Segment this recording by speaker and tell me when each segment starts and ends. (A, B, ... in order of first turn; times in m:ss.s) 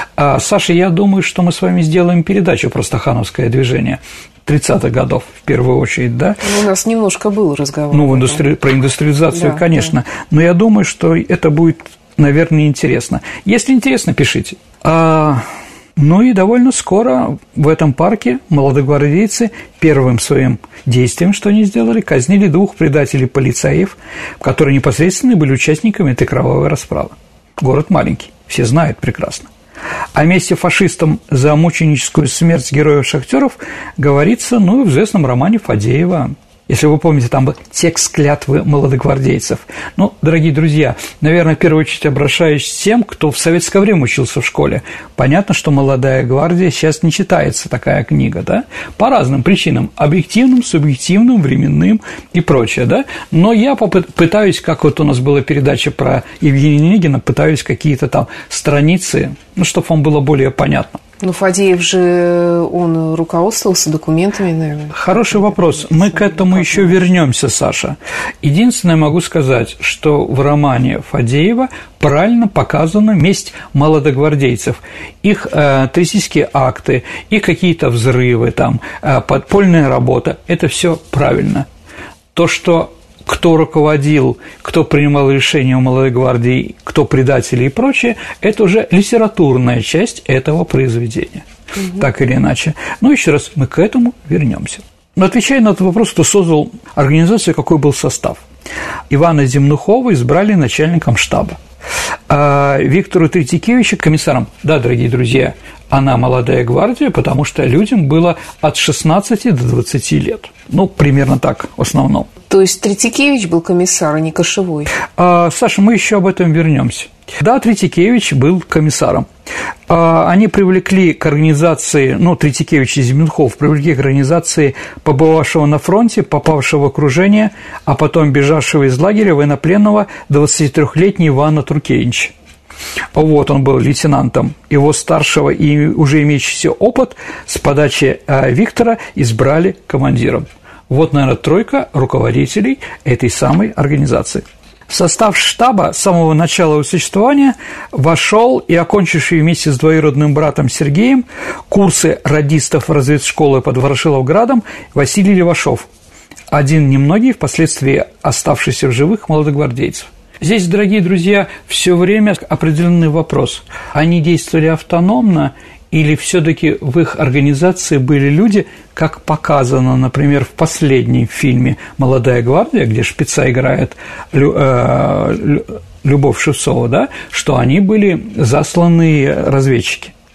0:00.2-0:06.4 A
0:06.4-0:08.4 B
0:07.9-0:15.4 A
0:09.3-0:09.8 B
0:16.0-0:29.5 A
0:30.1-1:01.0 A
1:01.2-1:07.0 B
1:04.9-1:21.7 A
1:22.4-1:38.4 A
1:39.1-1:41.6 A
1:42.3-1:52.3 A
1:52.5-1:54.9 B
1:55.0-1:59.3 A
1:59.9-2:12.3 A
2:13.1-2:35.9 A
2:36.5-3:00.1 A